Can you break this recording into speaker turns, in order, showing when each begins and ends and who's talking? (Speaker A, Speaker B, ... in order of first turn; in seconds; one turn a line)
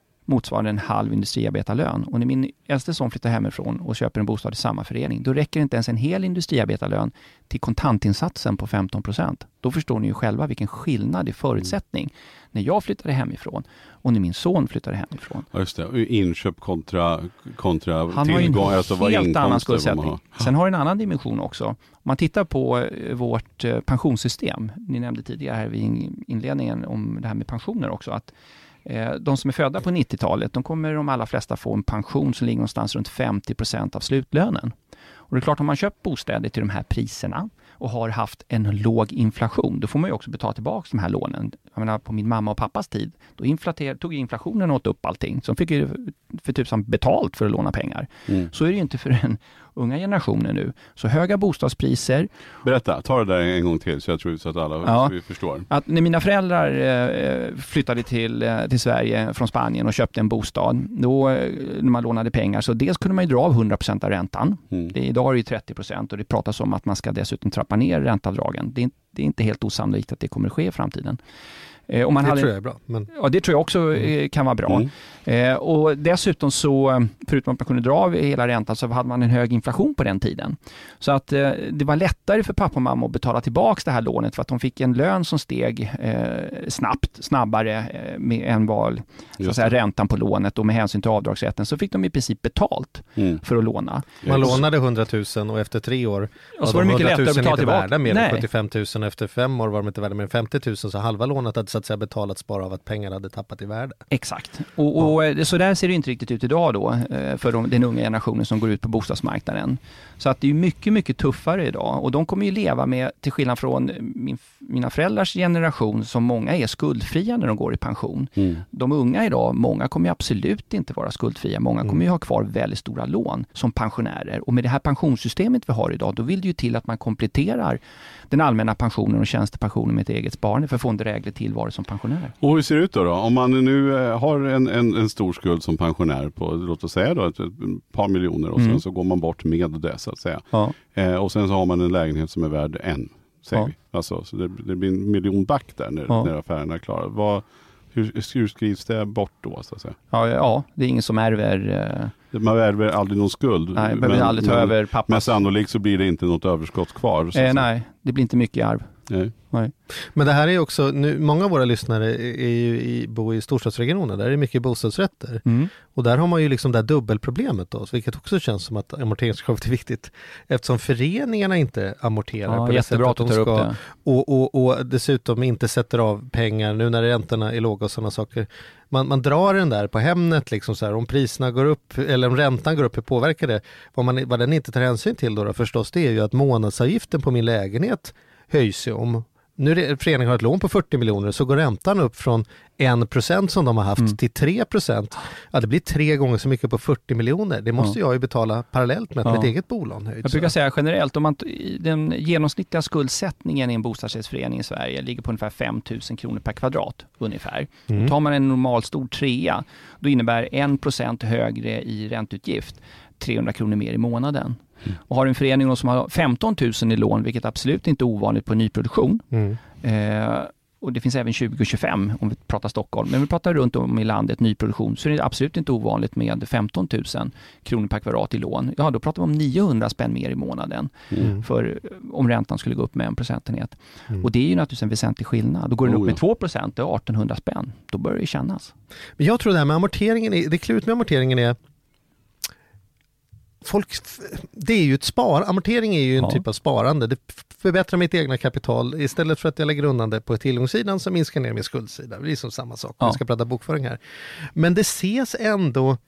Speaker A: 0.3-15.5
Speaker B: 15.5-20.5
Speaker A: 18.1-28.3
Speaker A: 28.9-34.7
Speaker A: 35.3-52.3
Speaker B: 52.6-55.7
Speaker A: 54.9-55.1
Speaker A: 55.7-71.2
Speaker A: 71.9-72.5
Speaker C: 72.2-73.1
Speaker A: 73.1-94.6
Speaker B: 89.4-89.7
Speaker B: 94.2-94.6
Speaker C: 94.3-104.0
Speaker A: 96.6-98.5
Speaker A: 104.1-127.8
Speaker B: 118.4-118.6
Speaker A: 128.3-132.3
Speaker B: 132.4-150.0
Speaker A: 138.6-138.8
Speaker A: 150.1-152.2
Speaker B: 152.3-157.7
Speaker A: 153.8-155.4
Speaker A: 157.3-158.9
Speaker C: 160.2-200.5
Speaker A: 165.5-165.7
Speaker A: 172.5-173.8
Speaker A: 199.2-199.5
Speaker A: 200.2-219.3
Speaker C: 219.3-219.6
Speaker A: 219.8-238.7
Speaker B: 235.8-236.2
Speaker C: 239.2-241.6
Speaker C: 243.6-256.0